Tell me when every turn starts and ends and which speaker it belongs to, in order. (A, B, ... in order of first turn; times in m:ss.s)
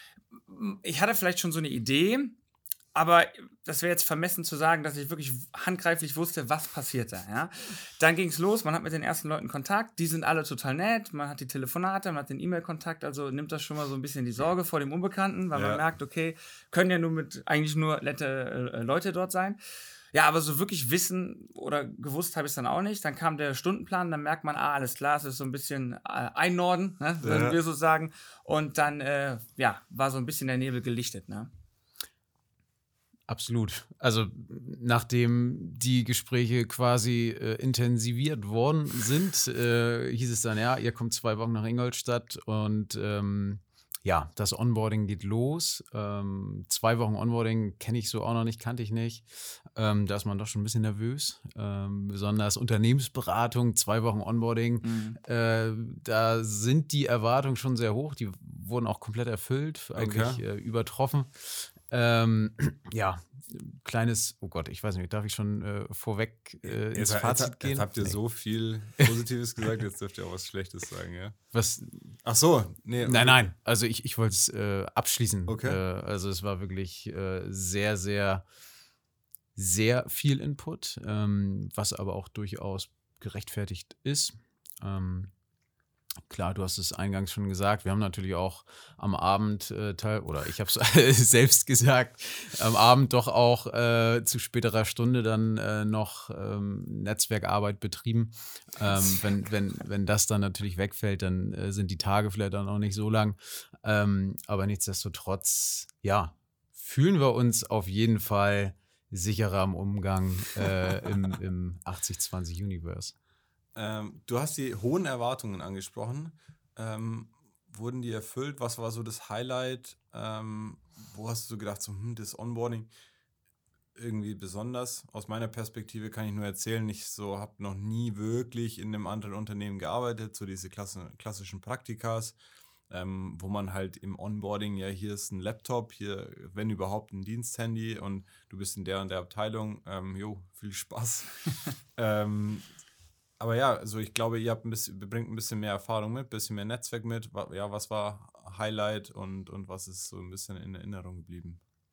0:00.3-0:02.4 A
0:02.9-0:19.6 A
0:15.5-0:15.8 B
0:20.1-0:31.5 A
0:27.2-0:27.6 B
0:33.3-1:08.2 C
0:54.8-0:55.2 A
0:59.9-1:00.4 B
1:06.6-1:11.4 B
1:11.5-1:12.2 C
1:12.2-1:13.4 B
1:13.0-1:18.4 C
1:15.5-1:15.8 B
1:19.6-1:25.3 C
1:26.2-1:53.1 C
1:53.7-2:02.9 B
2:04.0-2:12.4 B
2:12.9-2:22.7 B
2:23.4-2:31.6 B